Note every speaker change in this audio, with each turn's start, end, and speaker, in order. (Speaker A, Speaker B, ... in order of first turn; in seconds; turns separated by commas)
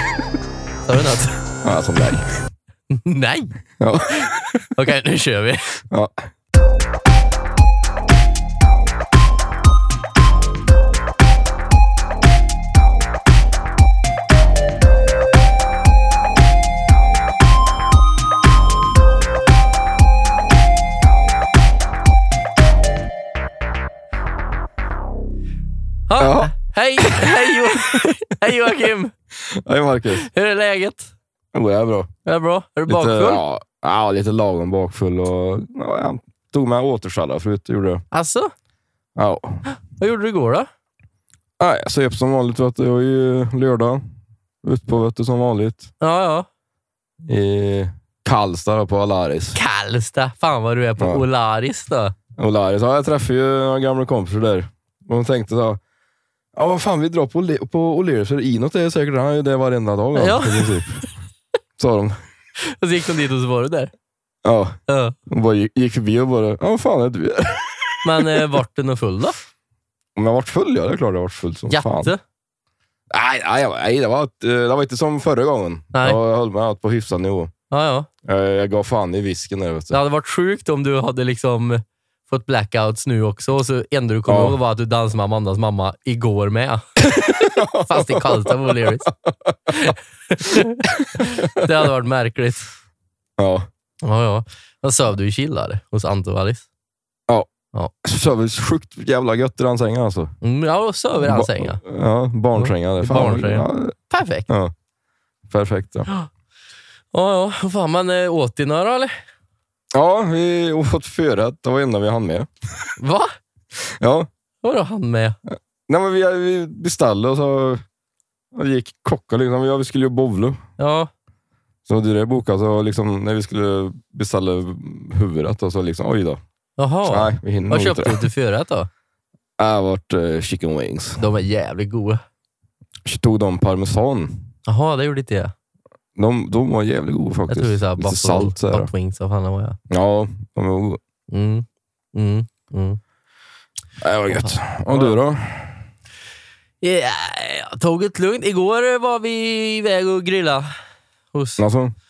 Speaker A: 0.9-1.4, Speaker B: 1.6-2.4, Speaker A: 2.9-3.6, Speaker B: 3.8-4.4, Speaker A: 4.2-5.8, Speaker B: 5.9-6.2, Speaker A: 26.1-29.1, Speaker B: 26.2-27.4, Speaker B: 29.3-30.3, Speaker A: 30.1-31.1, Speaker B: 31.5-32.1, Speaker A: 32.2-33.4, Speaker B: 32.9-38.0, Speaker A: 38.1-38.5, Speaker B: 39.1-39.6, Speaker A: 39.7-40.7, Speaker B: 41.6-44.1, Speaker B: 44.6-45.9, Speaker A: 46.0-46.5, Speaker B: 47.3-49.6, Speaker A: 49.5-52.1, Speaker B: 52.4-55.8, Speaker B: 56.5-61.1, Speaker A: 60.1-61.0, Speaker B: 61.8-62.2, Speaker A: 62.6-63.9, Speaker B: 64.4-68.5, Speaker A: 64.9-65.2, Speaker A: 68.0-69.4, Speaker B: 70.2-72.1, Speaker A: 71.7-72.2, Speaker B: 73.1-77.5, Speaker A: 75.9-76.2, Speaker A: 77.7-78.1, Speaker B: 78.2-80.0, Speaker A: 79.9-89.1, Speaker B: 84.3-84.6, Speaker B: 87.4-89.9, Speaker A: 89.7-92.7, Speaker B: 90.5-91.6, Speaker B: 93.4-93.7, Speaker A: 94.0-96.7, Speaker B: 98.0-100.3, Speaker A: 100.4-101.8, Speaker B: 101.2-103.9, Speaker A: 102.5-104.5, Speaker B: 105.5-106.1, Speaker A: 107.1-109.2, Speaker B: 109.9-112.5, Speaker A: 113.0-113.3, Speaker B: 113.8-114.3, Speaker A: 114.6-115.4, Speaker B: 115.9-117.8, Speaker B: 118.5-120.6, Speaker A: 120.8-121.1, Speaker B: 121.8-126.4, Speaker A: 126.8-128.9, Speaker B: 127.1-128.2, Speaker B: 129.6-131.2, Speaker A: 131.2-132.2, Speaker B: 133.0-134.5, Speaker A: 134.7-135.5, Speaker B: 136.2-138.9, Speaker A: 137.5-139.8, Speaker B: 139.9-141.0, Speaker A: 141.3-143.0, Speaker B: 144.0-145.8, Speaker A: 144.3-145.2, Speaker A: 146.8-150.7, Speaker A: 151.3-151.6, Speaker B: 151.6-151.9